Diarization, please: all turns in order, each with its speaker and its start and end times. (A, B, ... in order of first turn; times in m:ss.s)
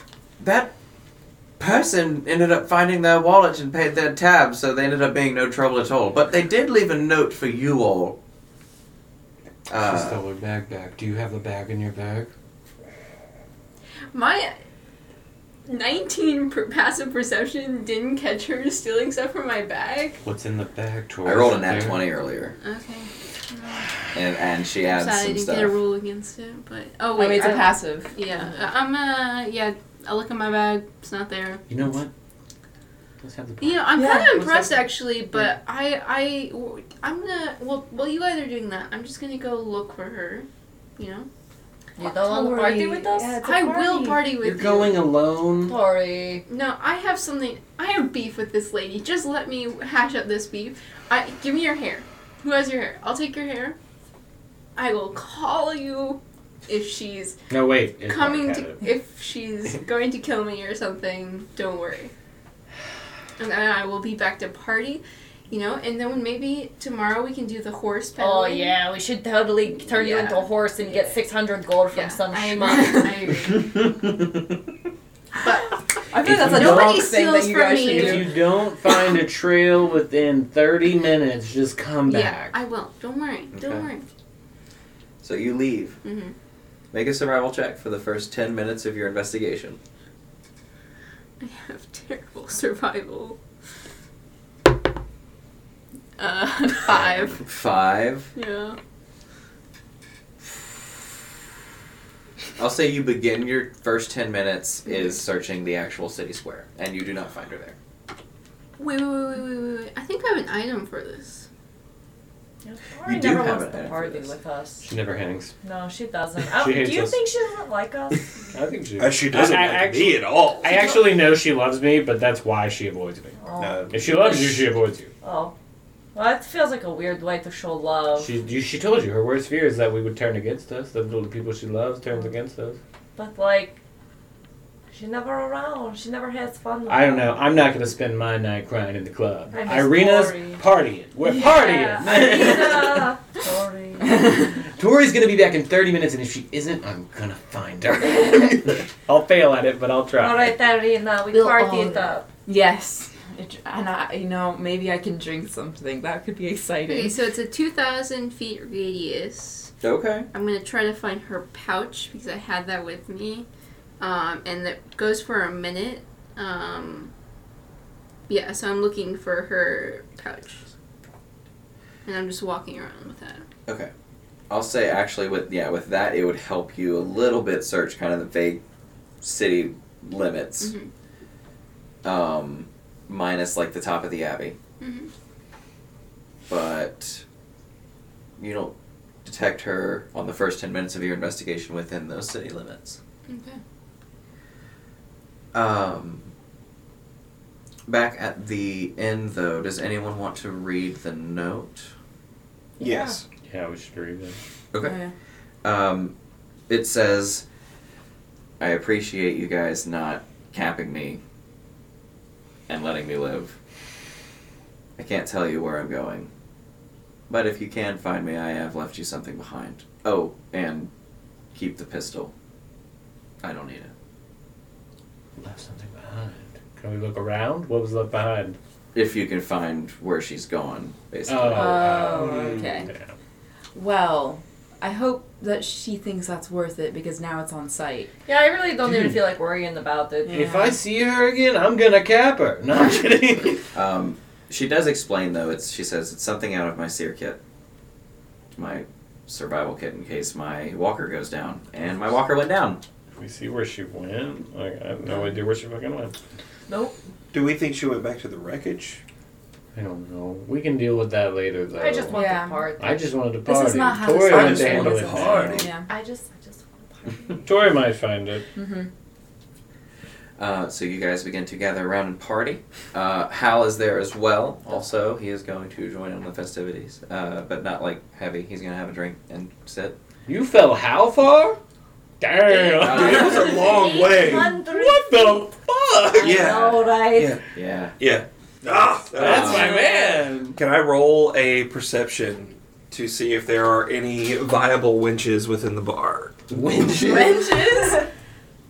0:00.4-0:00.7 A
0:01.6-0:08.2 A
0:09.7-0:10.2 A
0:09.8-0:12.3 B
0:14.1-0:14.6 C
0:15.7-0:20.2 C
0:20.2-0:22.0 B
0:21.2-0:22.6 A
0:22.6-0:24.1 C
0:24.1-0:25.8 A
0:24.8-0:31.6 C
0:27.1-0:28.5 D
0:31.7-0:32.1 B
0:33.2-0:34.6 B
0:33.6-0:41.3 C
0:33.9-0:34.4 D
0:42.0-0:43.9 E
0:43.2-0:43.6 D
0:43.4-0:45.0 C
0:44.4-0:45.8 B
0:45.7-0:46.4 E
0:46.5-0:53.8 C
0:54.8-0:57.4 C
0:57.5-0:58.8 B
0:58.0-1:02.1 C
1:03.4-1:08.8 C
1:08.2-1:13.2 E
1:09.9-1:11.0 C
1:11.9-1:13.6 C
1:15.4-1:15.7 C
1:16.1-1:18.3 D
1:16.2-1:17.1 B
1:16.3-1:18.3 C
1:17.8-1:22.6 B
1:22.0-1:24.0 C
1:23.5-1:23.9 A
1:25.2-1:26.0 A
1:26.0-1:26.3 C
1:26.9-1:29.8 A
1:31.4-1:33.4 C
1:36.2-1:37.4 C
1:37.4-1:38.3 A
1:38.3-1:38.8 C
1:42.6-1:47.8 A
1:44.9-1:45.1 C
1:48.8-1:51.4 C
1:52.6-1:54.9 E
1:53.0-1:54.3 A
1:54.8-1:55.5 B
1:55.6-1:58.2 E
1:56.4-1:57.2 B
1:58.5-2:03.3 B
1:59.0-2:00.9 F
2:03.4-2:04.6 E
2:03.6-2:04.4 F
2:03.9-2:05.1 B
2:05.2-2:05.5 E
2:06.1-2:08.3 E
2:08.2-2:12.8 B
2:13.2-2:13.8 E
2:14.9-2:17.6 E
2:16.9-2:23.1 B
2:19.5-2:20.6 E
2:21.3-2:24.2 E
2:24.1-2:24.4 D
2:24.8-2:30.5 B
2:30.2-2:32.2 E
2:31.3-2:37.2 D
2:36.9-2:39.7 C
2:39.8-2:40.3 A
2:40.3-2:43.5 C
2:44.0-2:47.1 C
2:48.3-2:50.7 C
2:52.0-2:53.4 C
2:54.5-2:58.6 A
2:59.2-3:00.7 A
3:00.6-3:00.9 C
3:02.0-3:04.6 A
3:04.8-3:05.1 C
3:06.5-3:07.2 A
3:08.4-3:13.0 A
3:13.3-3:13.6 C
3:15.5-3:16.3 A
3:17.9-3:21.9 A
3:22.8-3:23.2 F
3:22.8-3:23.1 E
3:23.4-3:24.4 B
3:24.7-3:25.0 A
3:24.8-3:25.1 D
3:25.6-3:26.1 A
3:26.7-3:27.4 A
3:28.6-3:31.2 A
3:32.7-3:33.6 A
3:35.0-3:36.3 A
3:37.3-3:40.9 A
3:41.5-3:42.3 A
3:43.4-3:43.9 A
3:45.4-3:48.6 B
3:48.9-3:52.1 A
3:51.3-3:53.1 B
3:51.5-3:52.9 D
3:52.2-3:52.6 F
3:53.7-3:58.1 D
3:58.2-4:00.4 E
3:58.8-3:59.2 B
4:00.3-4:00.8 D
4:00.3-4:03.6 B
4:03.7-4:07.4 A
4:08.5-4:12.8 A
4:13.2-4:16.1 B
4:15.1-4:15.3 D
4:16.7-4:17.0 E
4:17.3-4:19.0 F
4:19.7-4:22.2 B
4:21.8-4:23.1 E
4:22.1-4:22.7 D
4:22.8-4:25.6 B
4:23.4-4:25.9 D
4:24.3-4:25.7 F
4:25.9-4:27.5 E
4:27.4-4:28.4 B
4:28.5-4:28.9 D
4:30.4-4:40.0 A
4:40.2-4:41.6 B
4:42.2-4:43.3 B
4:42.4-4:45.4 E
4:42.7-4:43.9 A
4:42.8-4:44.6 F
4:44.2-4:46.4 B
4:46.1-4:47.3 E
4:46.2-4:47.4 F
4:47.5-4:48.0 A
4:48.0-4:49.9 F
4:48.7-4:50.6 B
4:49.2-4:49.8 A
4:49.5-4:50.2 E
4:50.5-4:56.6 F
4:56.5-4:57.7 B
4:56.9-4:58.0 D